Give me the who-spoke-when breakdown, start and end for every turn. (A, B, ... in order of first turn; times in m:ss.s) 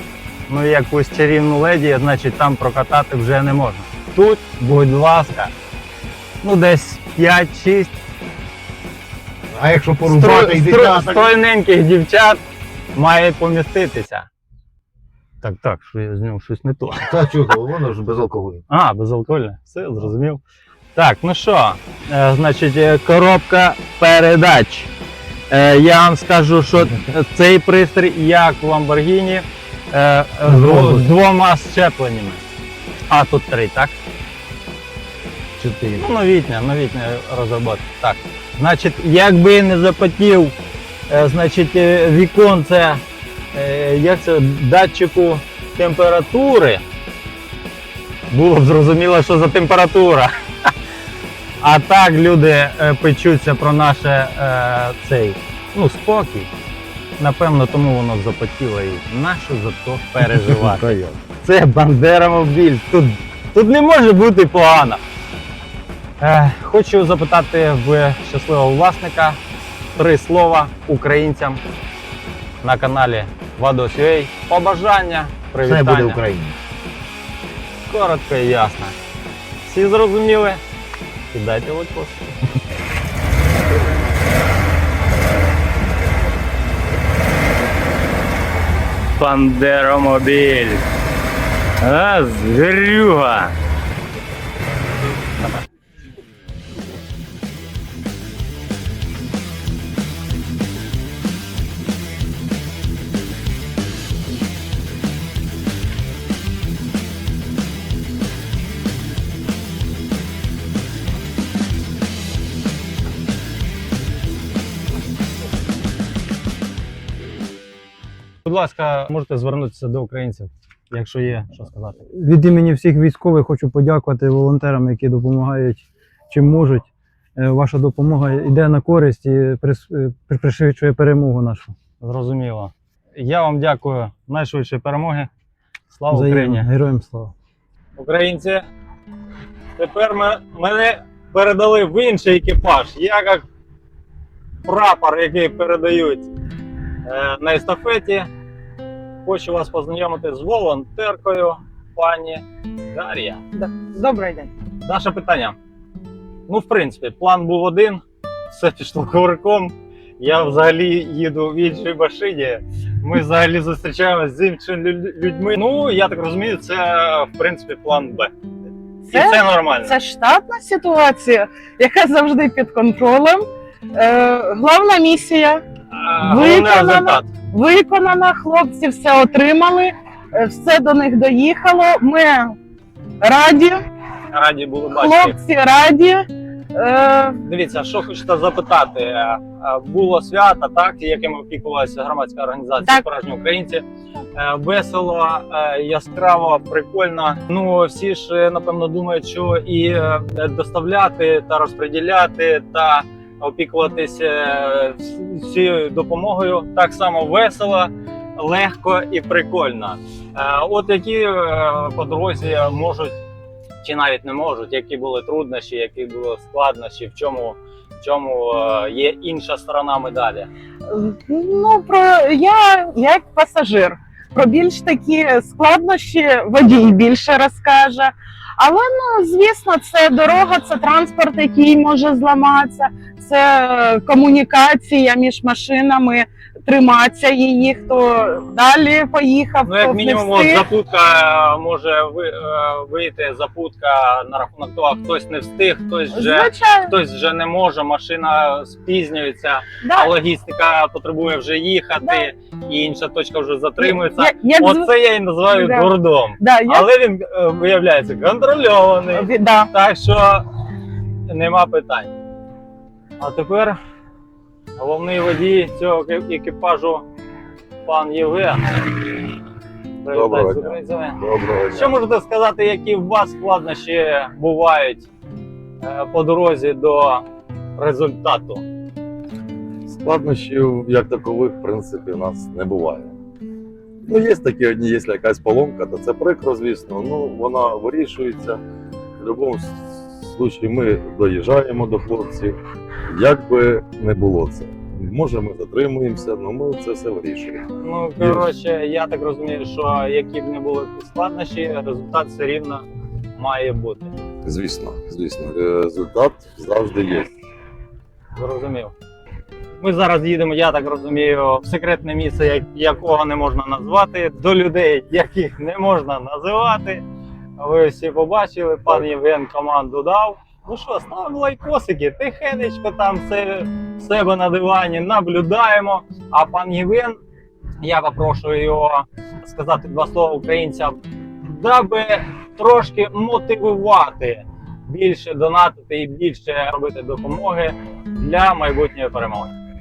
0:00.5-0:05.5 A
0:06.4-0:08.0 A
0:09.5-0:11.3 B
0:10.1-0:12.4 A
0:13.0-0:14.3 A
0:15.4-0:17.2 A
0:17.0-0:18.6 B
0:18.7-0:20.4 A
0:21.0-0:24.9 A
0:25.5-0:32.4 A
0:30.4-0:31.1 B
0:33.1-0:34.0 A
0:35.6-0:36.0 B
0:36.0-0:40.5 A
0:41.1-0:43.0 A
0:43.5-0:46.8 A
0:48.3-0:50.7 A
0:51.6-0:56.5 A
0:57.2-1:05.0 A
1:00.2-1:01.2 B
1:06.2-1:09.4 A
1:10.0-1:11.6 A
1:12.6-1:16.2 A
1:15.6-1:16.6 B
1:17.9-1:19.0 A
1:19.6-1:20.6 A
1:21.3-1:22.3 A
1:29.2-1:30.8 A
1:31.8-1:33.5 A
1:58.4-2:02.0 A
2:02.1-2:11.7 C
2:12.0-2:15.3 A
2:15.9-2:16.7 A
2:16.1-2:17.3 C
2:18.0-2:18.6 A
2:19.8-2:23.4 A
2:24.6-2:26.3 A
2:27.1-2:28.3 A
2:29.2-2:33.4 A
2:33.6-2:34.5 D
2:34.8-2:35.6 A
2:36.5-2:48.3 A
2:49.0-2:55.6 D
2:49.1-2:50.0 A
2:55.9-2:57.3 A
2:56.2-3:02.6 D
3:03.2-3:03.8 D
3:04.3-3:05.4 A
3:04.9-3:06.2 D
3:06.8-3:07.4 D
3:07.4-3:13.8 A
3:14.4-3:33.2 A
3:33.8-3:40.5 A
3:40.9-4:00.6 D
3:59.6-4:20.5 A
4:06.1-4:06.9 D
4:09.8-4:10.1 D
4:13.8-4:14.9 D
4:15.5-4:16.9 D
4:19.1-4:19.7 D
4:21.3-4:22.1 A
4:23.2-4:23.8 A
4:24.8-4:27.0 A
4:27.8-4:28.7 A
4:30.0-4:31.2 A
4:30.1-4:31.9 E
4:31.7-4:35.1 A
4:35.8-4:37.2 A
4:37.8-4:38.6 A
4:39.9-4:43.1 E
4:44.1-4:48.6 E
4:49.2-4:52.6 E
4:53.1-4:57.6 E
4:57.8-5:02.8 A
4:58.2-4:58.5 E
5:03.4-5:04.1 A
5:04.4-5:07.3 E
5:08.4-5:08.9 A
5:09.8-5:17.0 A
5:17.6-5:27.2 A
5:27.8-5:39.5 A